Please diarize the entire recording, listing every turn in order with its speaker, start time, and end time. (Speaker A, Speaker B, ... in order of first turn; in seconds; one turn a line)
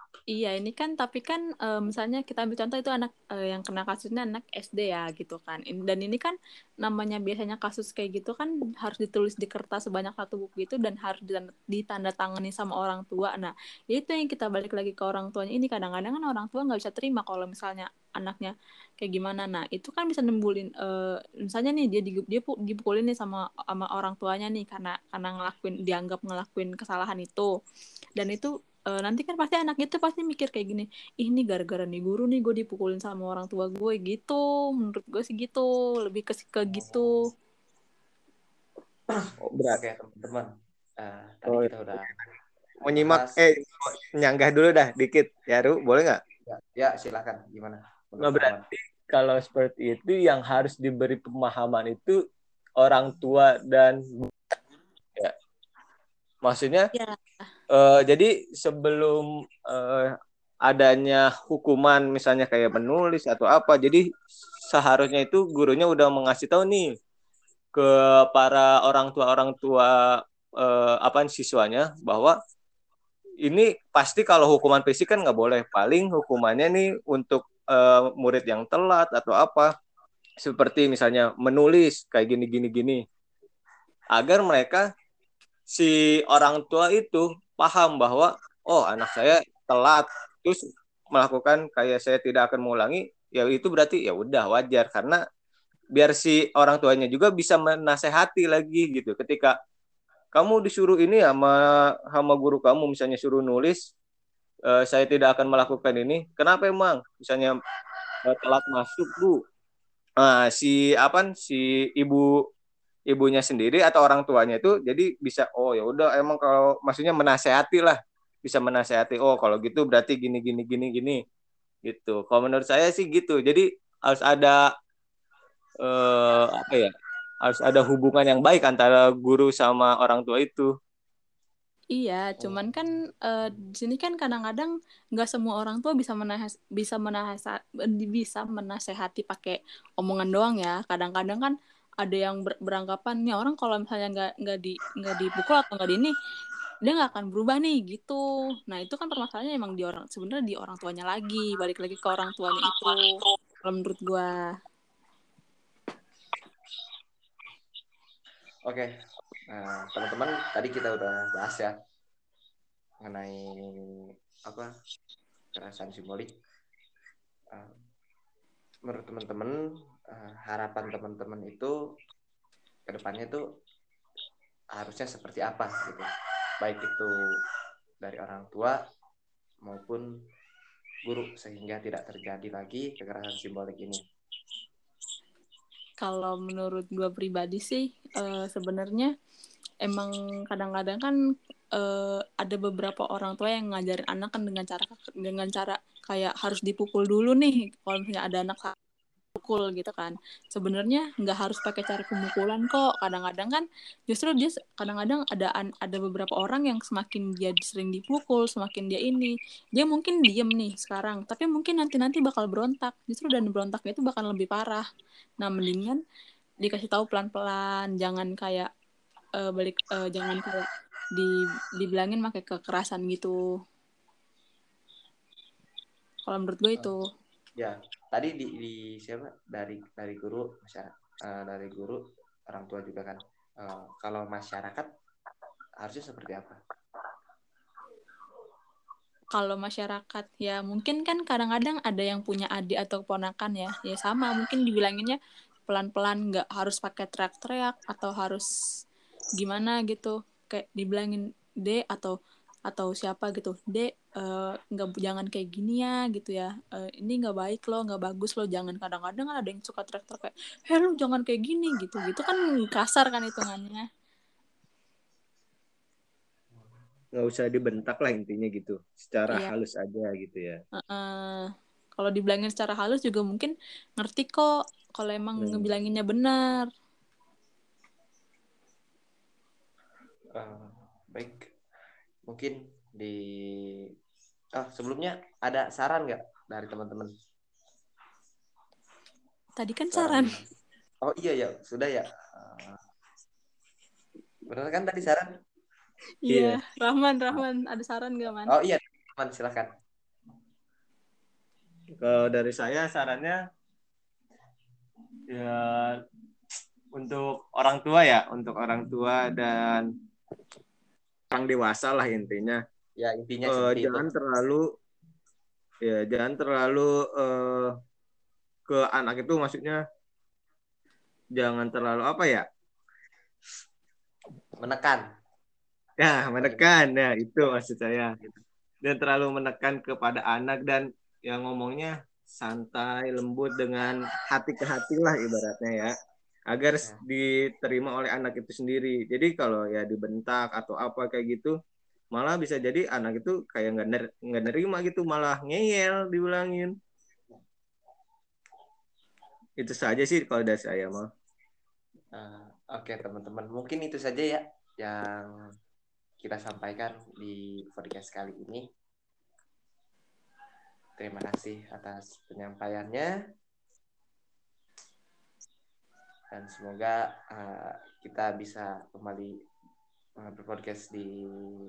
Speaker A: 0.3-27.5
Speaker A: 28.2-37.2
Speaker B: 36.7-37.1
Speaker C: 39.4-39.8
Speaker B: 39.7-40.5
Speaker B: 41.0-42.1
Speaker C: 41.5-42.2
Speaker B: 42.8-43.4
Speaker C: 42.8-46.2
Speaker B: 46.5-48.6
Speaker C: 48.2-52.1
Speaker C: 52.8-54.3
Speaker C: 56.4-56.9
Speaker C: 57.7-60.1
Speaker C: 60.7-64.0
Speaker C: 64.7-66.8
Speaker C: 67.7-69.9
Speaker C: 70.6-72.3
Speaker C: 73.4-79.7
Speaker C: 80.4-83.0
Speaker C: 84.1-84.8
Speaker C: 85.7-90.6
Speaker C: 91.1-95.2
Speaker C: 95.9-99.5
Speaker C: 100.3-101.5
Speaker C: 102.1-103.8
Speaker C: 104.7-107.5
Speaker C: 108.2-109.4
Speaker C: 110.2-112.3
Speaker C: 113.1-121.2
Speaker C: 121.8-124.6
Speaker C: 125.8-126.9
Speaker C: 127.4-130.7
Speaker A: 131.9-137.5
Speaker B: 132.4-132.8
Speaker A: 138.1-141.5
Speaker A: 142.0-146.1
Speaker A: 146.8-153.0
Speaker A: 153.6-154.3
Speaker B: 159.5-161.7
Speaker B: 163.0-163.8
Speaker B: 165.5-166.3
Speaker B: 168.9-169.6
Speaker B: 170.1-171.7
Speaker B: 172.9-173.4
Speaker B: 174.7-176.1
Speaker B: 176.6-177.1
Speaker B: 178.0-178.8
Speaker B: 179.6-180.0
Speaker B: 181.1-184.0
Speaker A: 186.0-189.1
Speaker A: 189.8-191.1
Speaker A: 191.8-198.7
Speaker A: 199.4-214.8
Speaker A: 215.4-216.0
Speaker A: 216.6-218.7
Speaker A: 219.4-223.3
Speaker A: 226.3-227.0
Speaker B: 227.6-234.9
Speaker B: 235.8-236.6
Speaker A: 239.3-248.5
Speaker A: 249.4-252.1
Speaker A: 252.7-263.8
Speaker C: 267.1-270.6
Speaker A: 270.8-271.4
Speaker A: 272.0-274.5
Speaker A: 275.0-276.7
Speaker C: 275.4-275.7
Speaker B: 280.4-281.4
Speaker B: 282.3-283.2
Speaker B: 284.6-287.1
Speaker A: 289.6-290.4
Speaker B: 289.9-290.3
Speaker B: 291.0-292.8
Speaker B: 294.5-295.3
Speaker A: 296.2-298.5
Speaker C: 296.3-296.6
Speaker B: 298.4-299.7
Speaker C: 302.0-303.4
Speaker C: 305.3-305.9
Speaker C: 306.9-309.9
Speaker C: 311.3-312.6
Speaker B: 313.0-314.1
Speaker C: 313.4-314.6
Speaker C: 315.8-317.7
Speaker C: 318.7-319.8
Speaker C: 321.4-322.4
Speaker B: 324.6-325.0
Speaker C: 326.0-328.1
Speaker B: 326.4-326.7
Speaker C: 328.8-335.9
Speaker C: 336.5-341.5
Speaker C: 342.1-346.7
Speaker C: 349.6-351.1
Speaker B: 352.1-355.3
Speaker B: 356.2-358.6
Speaker B: 361.0-363.1
Speaker B: 366.3-369.3
Speaker B: 370.2-371.1